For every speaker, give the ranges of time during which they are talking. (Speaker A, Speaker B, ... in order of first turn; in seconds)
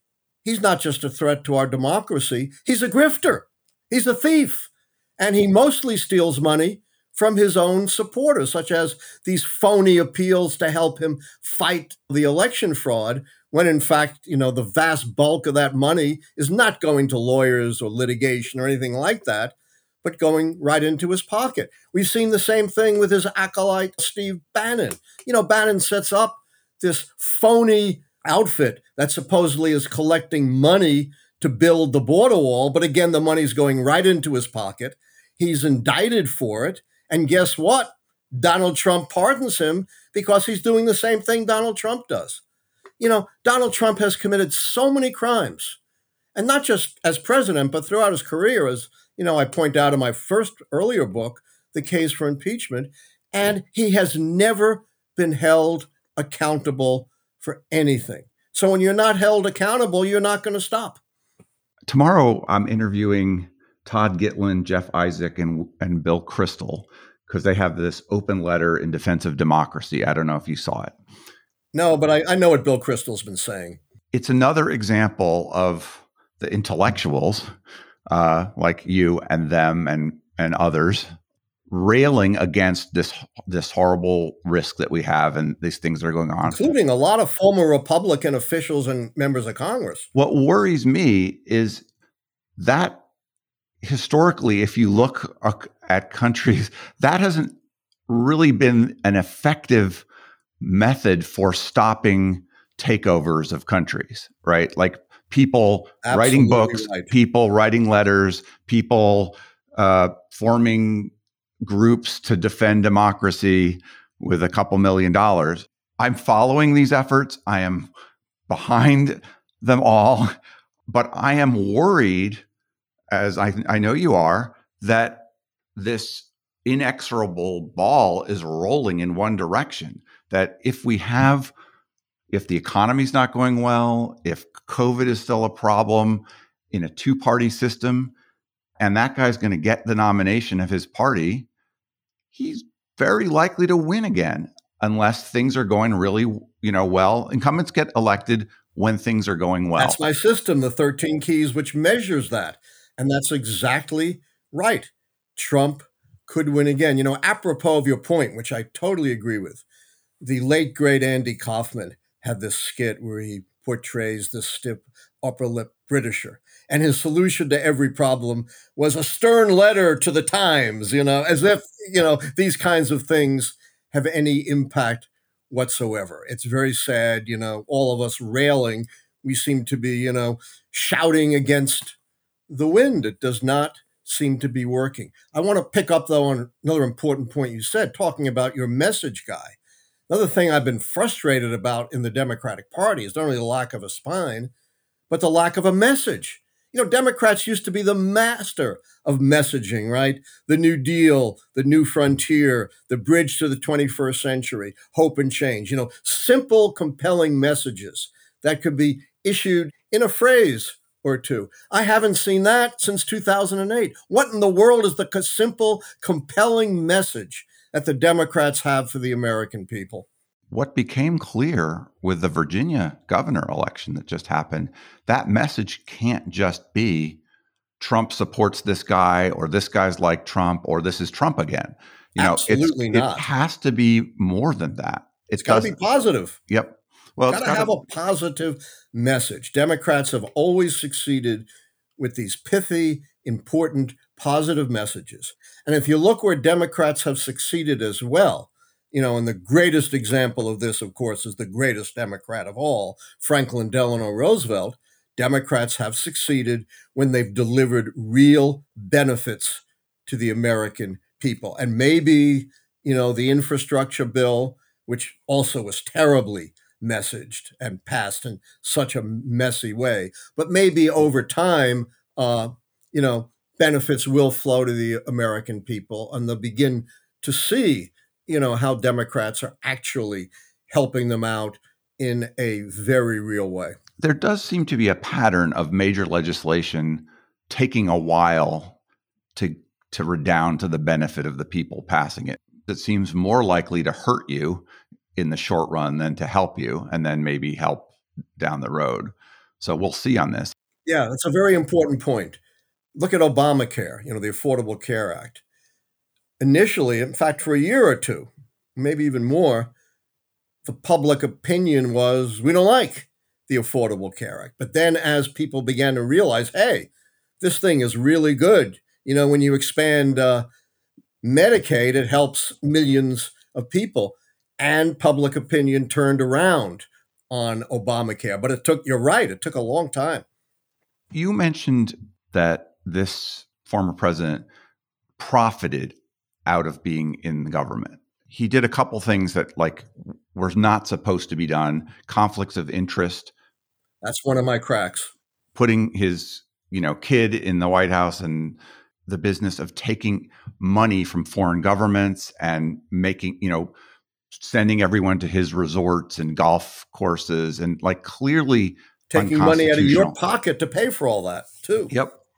Speaker A: 0.4-42.4, 43.0-45.8, 46.4-61.0, 71.7-73.8, 86.5-90.1, 106.0-107.1, 149.8-159.6, 160.2-182.0, 182.5-189.6, 190.1-194.5, 195.1-220.1, 232.2-233.3, 235.4-236.4, 237.3-241.5, 242.0-283.8, 300.9-302.4, 303.0-305.4, 306.4-309.7, 310.6-316.9, 317.4-320.5, 321.2-330.2, 344.0-345.1, 359.1-361.9
Speaker B: 61.9-70.9, 74.1-77.5, 78.1-81.1, 81.7-86.7, 90.2-91.8, 92.6-93.0, 93.8-97.5, 98.1-100.0, 100.6-117.9, 118.5-120.3, 120.9-122.5, 123.1-131.5, 132.3-138.1, 138.8-141.5, 142.3-150.0, 220.5-227.2, 227.8-235.8, 236.5-237.7, 284.0-288.8, 289.4-300.5, 331.1-334.4, 335.2-336.0, 336.5-343.3, 345.6-353.7, 354.3-360.2, 361.9-362.2